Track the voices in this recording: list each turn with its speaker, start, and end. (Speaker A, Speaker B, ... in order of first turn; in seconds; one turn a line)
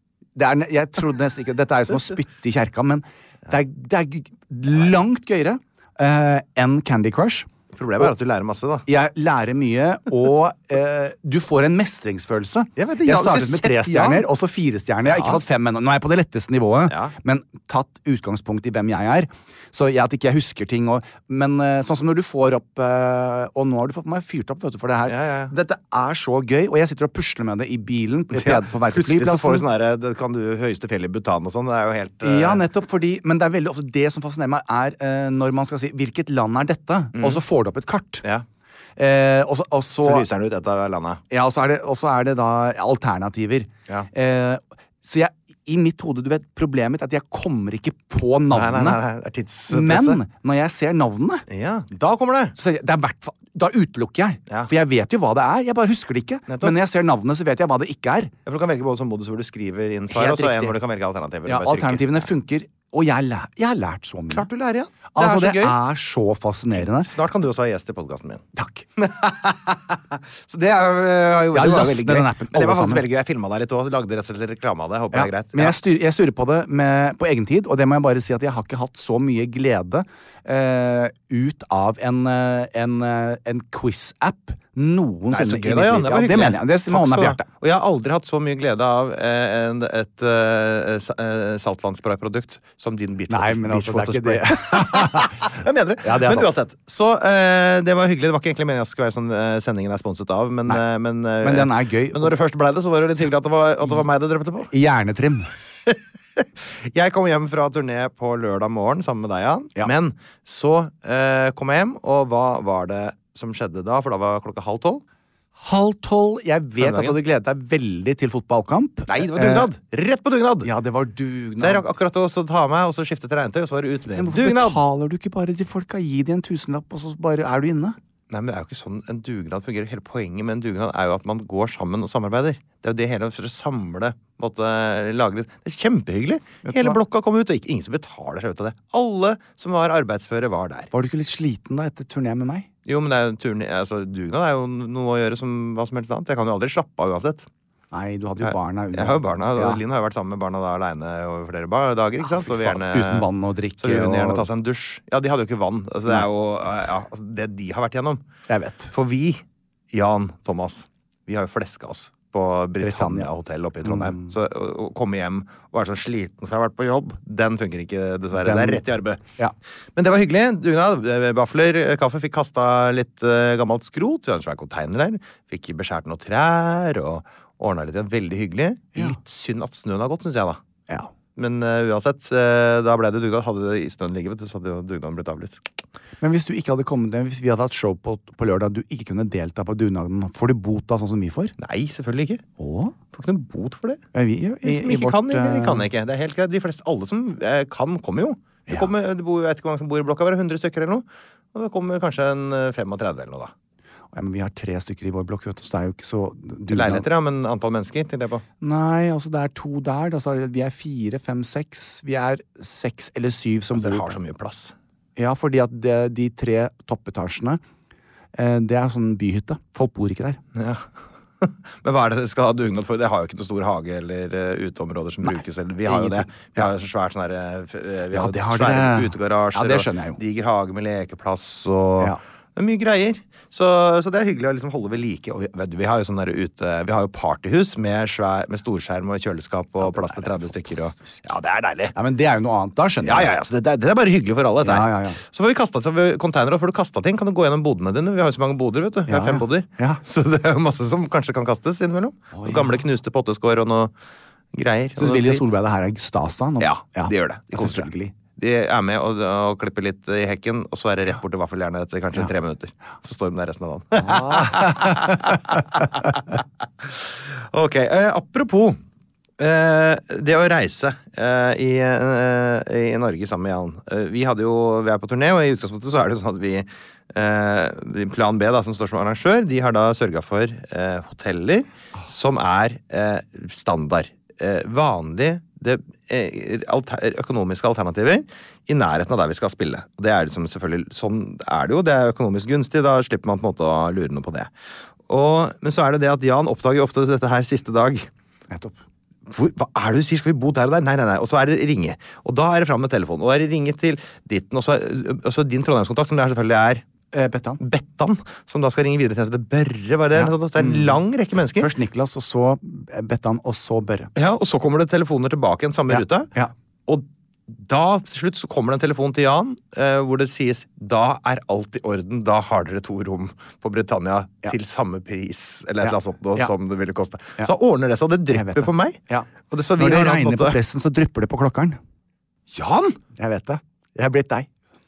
Speaker A: 0.3-7.5
Speaker B: 7.7-8.9
Speaker A: 8.9-29.6
Speaker B: 12.8-14.2
Speaker B: 15.1-15.4
Speaker B: 25.1-25.5
Speaker B: 28.3-32.6
Speaker A: 32.2-38.2
Speaker B: 37.1-37.4
Speaker A: 39.0-40.3
Speaker B: 40.0-41.2
Speaker A: 41.3-49.0
Speaker B: 48.5-50.2
Speaker A: 49.7-51.4
Speaker B: 51.5-52.5
Speaker A: 52.5-58.3
Speaker B: 56.5-56.8
Speaker B: 58.5-62.3
Speaker A: 60.1-60.8
Speaker A: 61.4-64.5
Speaker B: 64.3-65.8
Speaker A: 65.1-67.1
Speaker B: 66.7-68.4
Speaker A: 68.5-68.8
Speaker B: 69.0-75.8
Speaker A: 71.5-73.0
Speaker A: 75.1-87.5
Speaker B: 85.3-104.7
Speaker A: 93.3-95.5
Speaker A: 96.0-96.5
Speaker A: 101.4-102.3
Speaker A: 104.7-105.5
Speaker B: 105.9-115.0
Speaker A: 115.6-119.7
Speaker B: 116.8-117.2
Speaker B: 119.1-120.7
Speaker A: 120.6-121.8
Speaker B: 121.6-124.8
Speaker A: 124.2-128.0
Speaker B: 128.3-140.9
Speaker A: 136.6-137.0
Speaker A: 140.9-142.7
Speaker B: 142.8-147.5
Speaker A: 147.9-149.8
Speaker B: 148.4-153.3
Speaker A: 152.2-154.5
Speaker B: 153.8-158.2
Speaker A: 158.5-158.9
Speaker B: 158.9-169.2
Speaker A: 162.8-163.3
Speaker A: 163.8-164.3
Speaker A: 168.3-168.8
Speaker B: 169.9-180.6
Speaker B: 181.3-185.7
Speaker A: 186.2-191.5
Speaker B: 191.6-192.4
Speaker A: 192.6-192.9
Speaker B: 193.1-194.0
Speaker A: 194.1-195.9
Speaker B: 194.6-203.5
Speaker A: 204.1-207.0
Speaker B: 206.7-208.4
Speaker A: 208.6-214.2
Speaker B: 213.7-214.7
Speaker A: 215.2-217.6
Speaker A: 218.3-220.4
Speaker B: 220.5-220.8
Speaker B: 221.4-241.9
Speaker A: 225.2-226.7
Speaker A: 228.1-230.2
Speaker A: 239.8-241.2
Speaker A: 241.9-243.3
Speaker B: 243.0-253.9
Speaker A: 244.6-245.2
Speaker A: 249.1-250.0
Speaker A: 252.3-252.8
Speaker B: 254.5-255.4
Speaker A: 255.0-258.1
Speaker B: 256.6-268.8
Speaker A: 264.0-265.5
Speaker B: 269.4-294.5
Speaker B: 295.1-298.1
Speaker A: 298.5-298.8
Speaker B: 299.3-306.8
Speaker A: 307.1-307.6
Speaker B: 307.6-311.7
Speaker A: 310.1-311.0
Speaker A: 311.5-314.1
Speaker B: 314.1-316.3
Speaker A: 315.9-316.5
Speaker B: 316.9-330.6
Speaker A: 325.8-326.5
Speaker A: 328.3-331.8
Speaker B: 332.5-333.0
Speaker A: 333.1-334.5